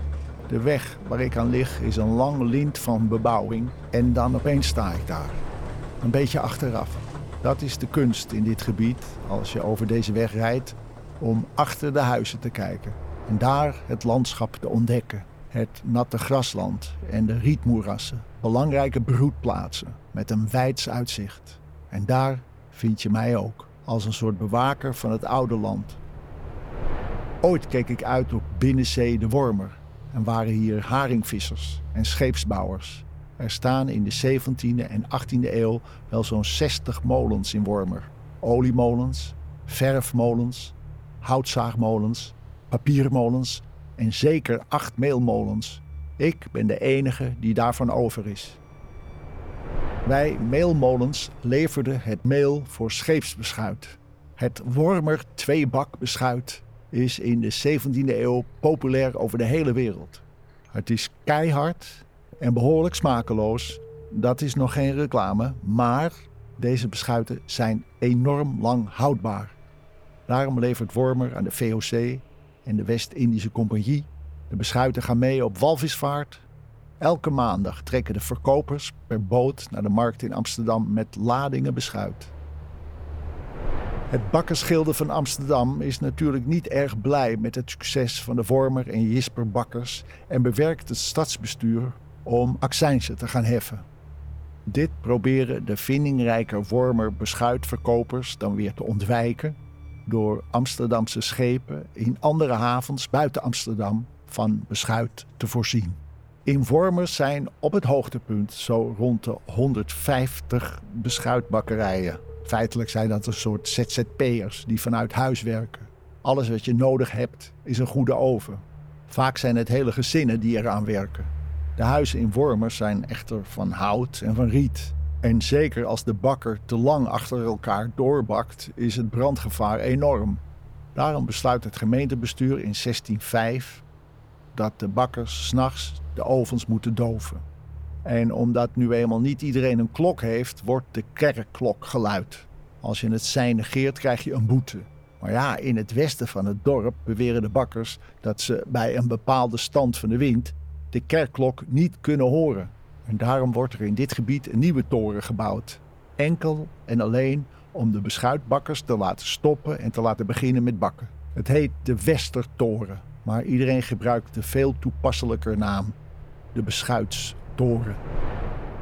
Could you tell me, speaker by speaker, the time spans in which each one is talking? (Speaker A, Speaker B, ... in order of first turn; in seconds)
Speaker A: 0.5-5.4, 6.0-26.0, 27.4-48.6, 50.0-69.5, 70.3-76.5, 77.0-82.3, 84.1-93.8, 94.7-130.4, 130.9-133.8, 134.5-137.4, 138.1-166.0, 166.5-168.0